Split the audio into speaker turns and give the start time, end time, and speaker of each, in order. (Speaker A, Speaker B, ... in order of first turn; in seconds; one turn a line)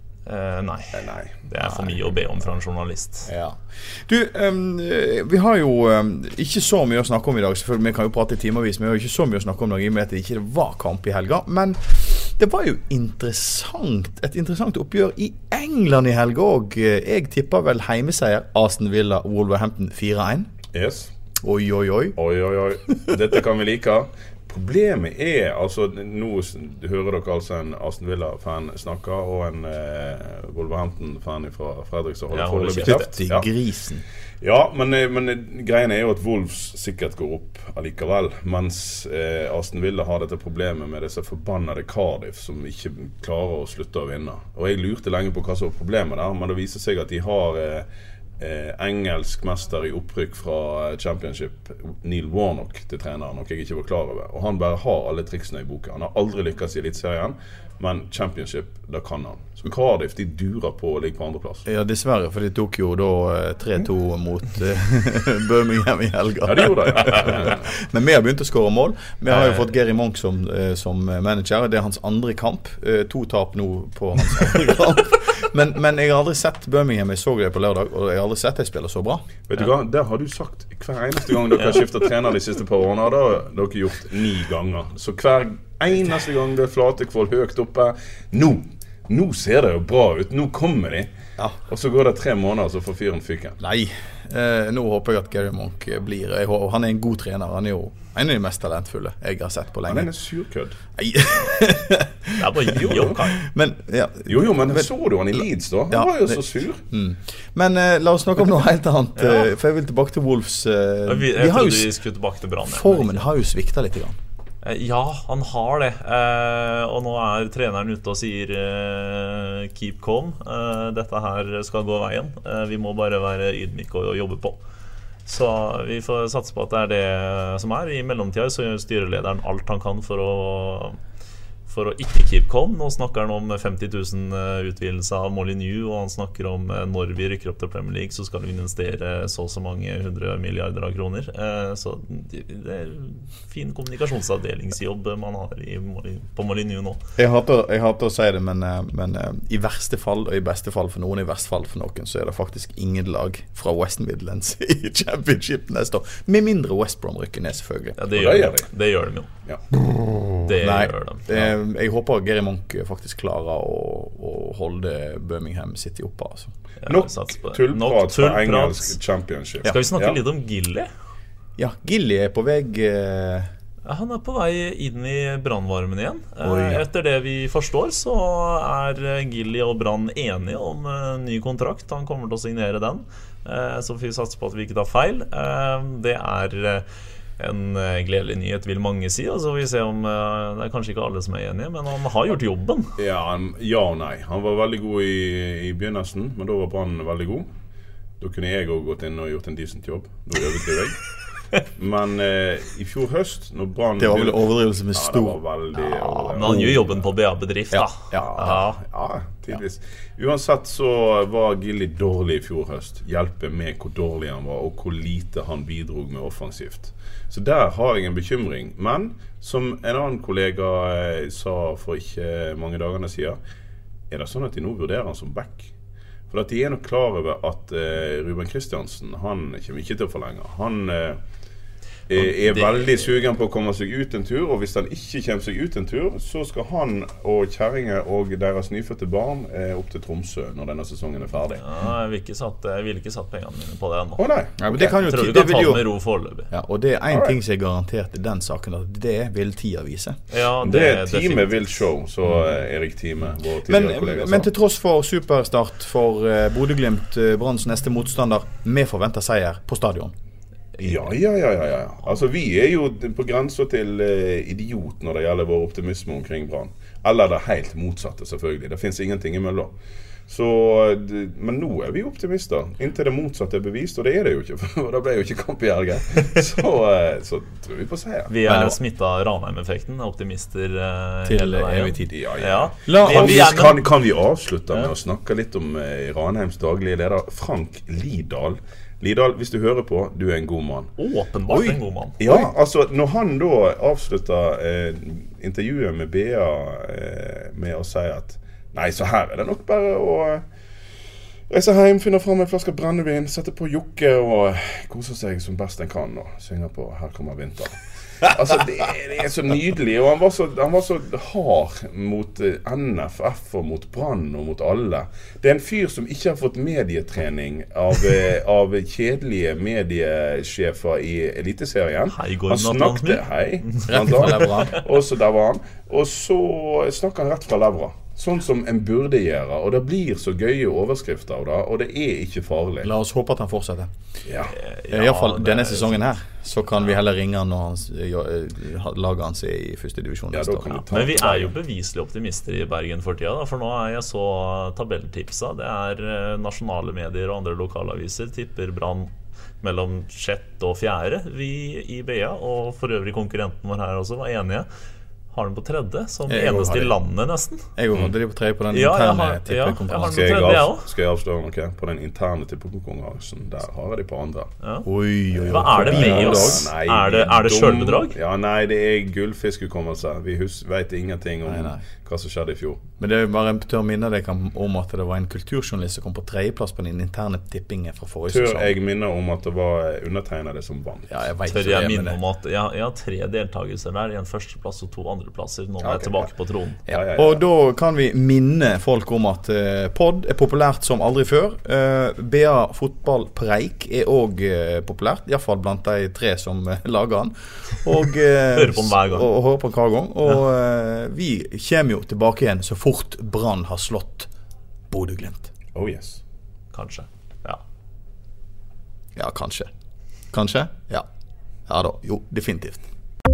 Speaker A: 0.3-3.3
Speaker B: 0.9-1.3
Speaker C: 1.6-2.0
Speaker C: 3.2-20.5
Speaker B: 20.7-21.1
Speaker C: 21.4-22.2
Speaker B: 22.1-33.5
Speaker A: 32.3-33.1
Speaker C: 32.8-34.0
Speaker B: 34.4-47.9
Speaker B: 48.4-61.6
Speaker C: 61.6-79.2
Speaker B: 66.4-67.7
Speaker A: 69.3-69.6
Speaker B: 79.5-91.1
Speaker B: 91.7-93.6
Speaker C: 93.6-100.1
Speaker B: 99.9-100.8
Speaker C: 101.0-111.9
Speaker A: 102.4-103.4
Speaker B: 102.7-103.2
Speaker B: 104.3-106.8
Speaker A: 109.2-109.5
Speaker A: 111.0-113.3
Speaker C: 112.6-114.2
Speaker A: 114.6-124.6
Speaker A: 125.2-131.0
Speaker A: 131.7-147.0
Speaker C: 147.2-158.0
Speaker A: 158.0-159.3
Speaker B: 158.1-158.7
Speaker A: 160.4-161.4
Speaker C: 160.6-166.5
Speaker A: 166.8-169.0
Speaker B: 166.8-170.2
Speaker A: 169.7-170.9
Speaker C: 171.6-173.5
Speaker A: 173.8-186.8
Speaker C: 176.4-176.8
Speaker A: 187.4-192.9
Speaker B: 193.0-197.5
Speaker B: 198.2-201.1
Speaker B: 201.7-207.1
Speaker C: 204.0-206.8
Speaker A: 206.3-208.8
Speaker C: 207.7-208.6
Speaker B: 208.4-223.4
Speaker B: 224.1-225.7
Speaker B: 226.3-231.2
Speaker B: 232.1-241.6
Speaker A: 232.2-233.0
Speaker A: 241.6-246.5
Speaker B: 244.2-244.7
Speaker C: 244.6-245.8
Speaker C: 246.5-250.2
Speaker B: 247.1-247.4
Speaker A: 250.3-251.6
Speaker B: 250.6-254.5
Speaker C: 253.7-260.1
Speaker B: 260.8-269.7
Speaker B: 270.3-278.3
Speaker A: 278.3-283.8
Speaker C: 278.4-278.8
Speaker C: 281.2-282.1
Speaker B: 282.1-290.9
Speaker C: 282.9-283.6
Speaker A: 291.0-292.2
Speaker C: 291.5-292.5
Speaker B: 292.2-300.4
Speaker B: 301.5-332.9
Speaker A: 322.1-324.5
Speaker C: 323.9-324.8
Speaker C: 332.8-333.9
Speaker B: 334.2-334.5
Speaker A: 334.6-336.1
Speaker C: 334.9-340.8
Speaker B: 340.3-341.5
Speaker A: 340.9-354.7
Speaker A: 355.3-357.6
Speaker C: 356.3-356.9
Speaker C: 357.8-360.6
Speaker A: 358.7-360.9
Speaker B: 360.1-364.5
Speaker A: 364.6-368.1
Speaker C: 364.8-366.7
Speaker B: 365.6-372.8
Speaker C: 371.4-371.8
Speaker C: 373.0-378.7
Speaker B: 378.3-381.1
Speaker C: 381.1-382.2
Speaker A: 381.5-386.8
Speaker B: 385.8-386.3
Speaker B: 386.9-387.4
Speaker C: 386.9-404.3
Speaker A: 398.5-399.3
Speaker C: 404.9-405.5
Speaker B: 405.7-406.2
Speaker A: 406.7-407.6
Speaker C: 409.1-409.7
Speaker C: 410.3-411.1
Speaker C: 411.7-412.9